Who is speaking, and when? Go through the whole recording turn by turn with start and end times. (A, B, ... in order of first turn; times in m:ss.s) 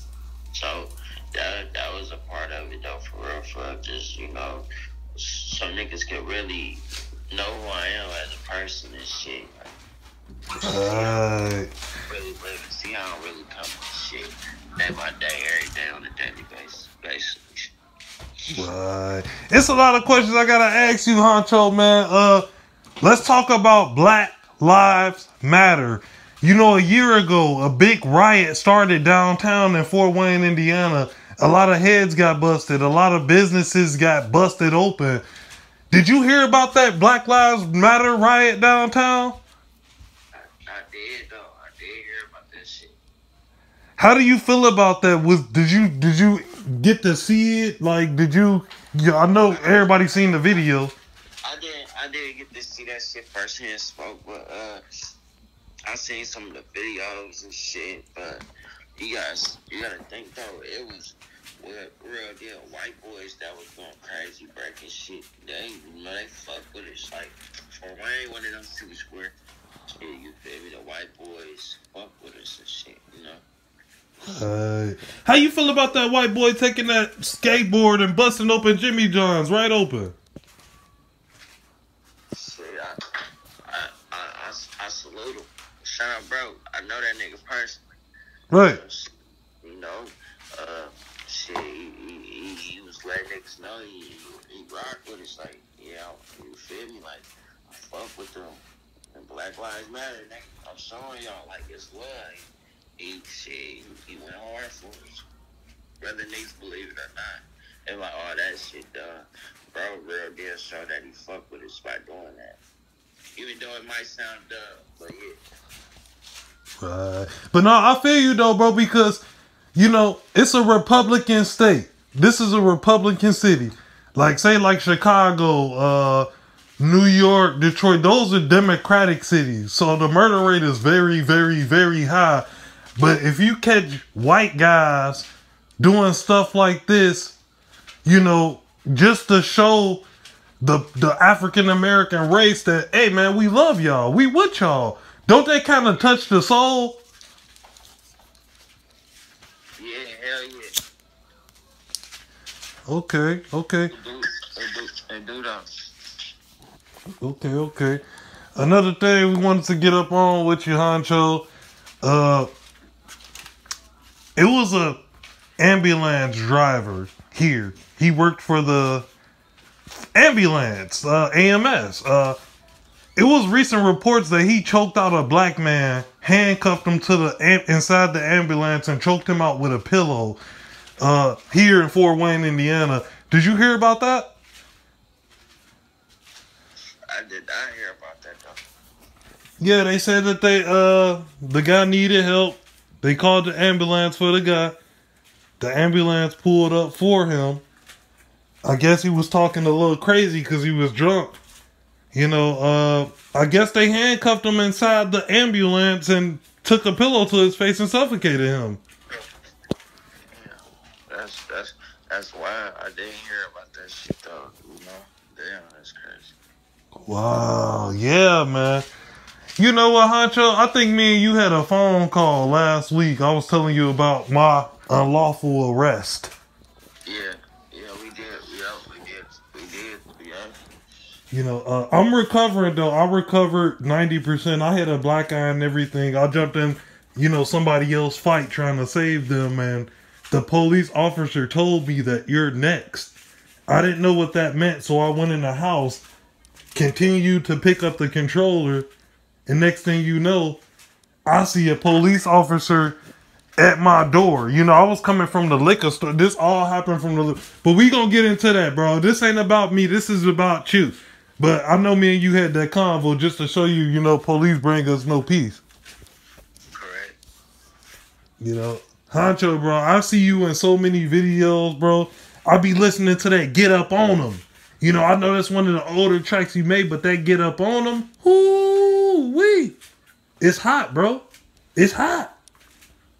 0:00.5-0:04.6 A
0:05.2-0:09.7 A
0:10.6-0:11.7 B
0:10.6-0:11.2 A
0:12.1-0:17.7 A
0:18.5-0:22.4 B
0:23.0-0:35.2 B
0:35.9-0:39.4 B
0:40.4-0:43.0 A
0:44.0-0:50.9 B
0:49.4-0:50.4 A
0:51.4-0:54.8 A
0:55.9-0:58.4 A
0:59.0-1:09.3 A
1:10.0-1:13.4 A
1:14.2-1:20.2 B
1:22.3-1:23.0 A
1:23.7-1:27.8 A
1:28.5-1:28.8 B
1:28.6-1:29.1 A
1:29.6-1:38.6 A
1:39.1-1:45.2 A
1:46.0-1:52.6 A
1:53.4-1:55.4 A
1:56.8-1:59.2 B
1:59.7-2:06.3 B
2:06.8-2:12.4 B
2:13.0-2:15.3 B
2:15.8-2:17.4 B
2:18.0-2:20.0 B
2:20.6-2:27.0 B
2:29.8-2:30.7 A
2:32.9-2:33.9 B
2:33.9-2:35.9 A
2:37.2-2:38.0 B
2:38.6-2:41.5 B
2:42.0-2:42.5 B
2:44.4-2:45.0 B
2:45.6-2:49.1 B
2:50.1-2:52.4 B
2:53.2-3:00.4 B
3:01.0-3:04.3 B
3:07.1-3:08.6 A
3:09.6-3:14.8 B
3:15.6-3:17.6 B
3:18.6-3:21.4 B
3:22.1-3:28.8 B
3:30.2-3:36.3 A
3:37.0-3:38.8 B
3:39.6-3:46.3 B
3:47.0-3:50.6 A
3:51.3-4:03.1 B
4:03.7-4:06.0 B
4:06.7-4:08.9 B
4:09.5-4:10.6 B
4:11.2-4:13.0 B
4:13.6-4:25.6 B
4:26.7-4:27.2 A
4:28.4-4:39.8 B
4:40.4-4:41.2 B
4:41.8-4:42.3 B